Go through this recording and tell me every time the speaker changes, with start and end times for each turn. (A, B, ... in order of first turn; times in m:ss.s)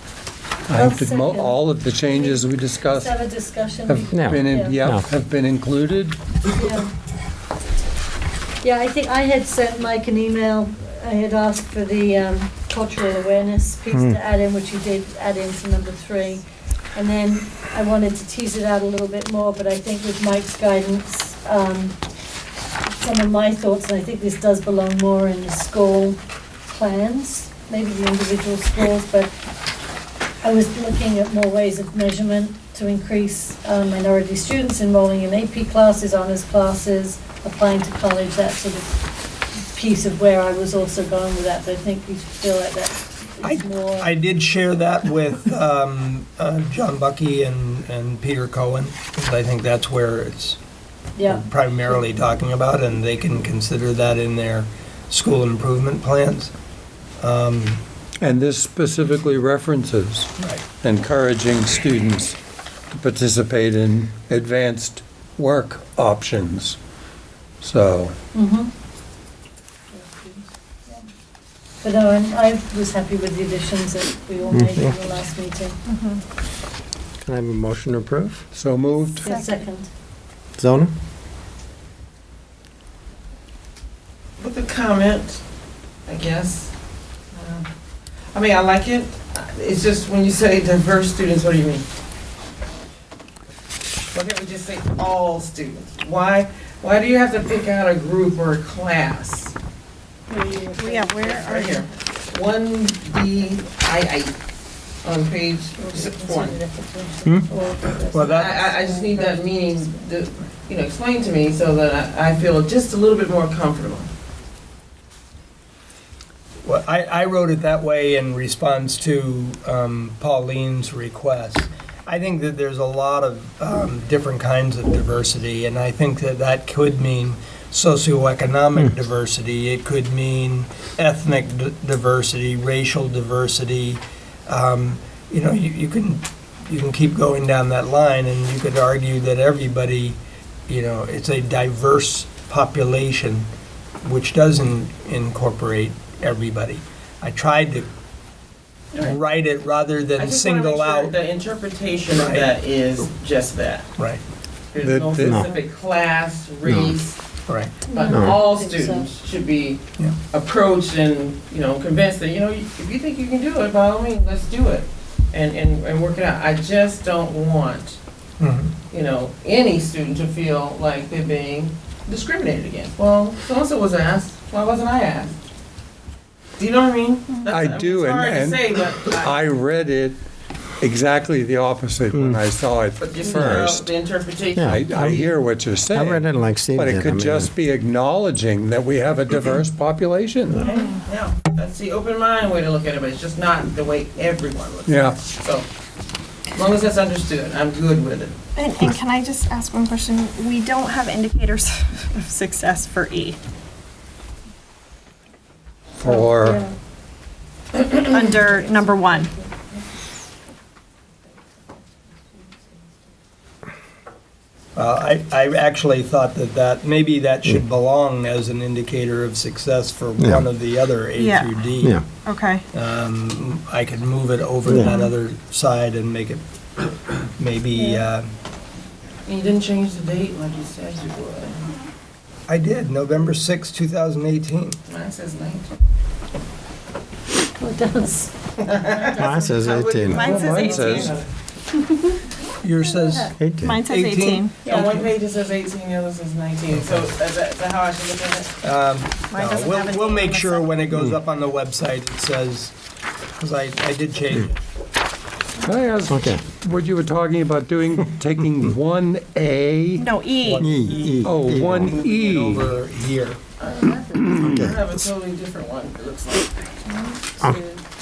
0:00.7-0:03.2 A
0:00.7-0:04.8 B
0:03.8-0:06.2 A
0:04.1-0:05.0 C
0:06.5-0:06.9 B
0:08.6-0:22.0 B
0:13.9-0:14.2 C
0:22.9-0:29.3 B
0:30.4-0:39.0 B
0:39.7-0:44.1 B
0:43.4-0:50.6 D
0:51.2-0:51.5 B
0:51.2-0:56.5 D
0:57.2-0:57.8 D
0:58.2-1:02.4 A
1:00.4-1:00.6 D
1:02.9-1:06.8 A
1:07.6-1:08.1 A
1:08.3-1:08.7 B
1:09.9-1:10.4 B
1:11.8-1:15.8 B
1:14.5-1:15.0 C
1:15.9-1:16.2 E
1:17.2-1:18.4 C
1:18.5-1:19.3 A
1:19.2-1:19.9 B
1:20.6-1:20.9 C
1:24.4-1:25.4 F
1:26.0-1:26.7 F
1:27.3-1:27.6 F
1:28.3-1:31.8 F
1:34.1-1:39.5 F
1:40.3-1:41.2 B
1:40.8-1:41.8 E
1:41.1-1:44.3 F
1:45.0-1:46.6 F
1:45.8-1:49.9 B
1:48.1-1:48.6 D
1:48.2-1:54.1 F
1:56.6-2:23.5 D
2:24.0-2:27.9 D
2:29.0-2:31.1 D
2:30.2-2:33.9 F
2:32.2-2:32.5 D
2:34.7-2:37.2 F
2:34.8-2:35.4 A
2:35.2-2:35.4 C
2:36.6-2:36.9 C
2:37.5-2:37.7 D
2:37.8-2:48.0 F
2:37.9-2:39.1 B
2:38.1-2:38.4 C
2:48.4-2:48.7 D
2:48.9-2:55.4 F
2:56.6-2:59.4 F
2:57.5-3:00.2 A
3:00.8-3:03.8 A
3:02.1-3:02.4 C
3:03.0-3:05.3 F
3:03.3-3:03.7 C
3:04.5-3:04.9 C
3:04.6-3:10.6 A
3:05.9-3:07.5 C
3:10.6-3:15.6 F
3:10.6-3:10.9 E
3:14.9-3:15.2 A
3:16.5-3:18.4 F
3:18.5-3:23.4 E
3:26.0-3:26.6 A
3:26.0-3:26.7 B
3:28.0-3:29.3 E
3:34.8-3:42.0 D
3:40.2-3:40.4 C
3:41.2-3:41.6 E
3:41.8-3:42.0 C
3:42.1-3:42.6 E
3:42.7-3:46.4 D
3:44.7-3:45.0 C
3:44.8-3:45.1 E
3:47.4-3:48.3 D
3:47.7-3:48.0 E
3:49.2-3:51.7 F
3:52.5-3:54.8 D
3:54.9-3:55.7 F
3:57.6-3:58.3 B
3:58.6-4:01.3 F
3:59.1-4:00.3 C
4:00.0-4:01.1 E
4:00.2-4:01.1 A
4:02.6-4:05.0 D
4:03.3-4:03.8 C
4:03.6-4:05.0 E
4:04.6-4:08.5 F
4:06.7-4:07.0 D
4:08.6-4:12.7 D
4:09.3-4:10.8 E
4:13.4-4:14.6 D
4:15.6-4:20.1 A
4:16.1-4:16.4 C
4:20.0-4:20.7 E
4:20.4-4:23.4 D
4:20.6-4:22.0 C
4:21.2-4:22.7 A
4:23.6-4:27.7 F
4:24.4-4:24.8 C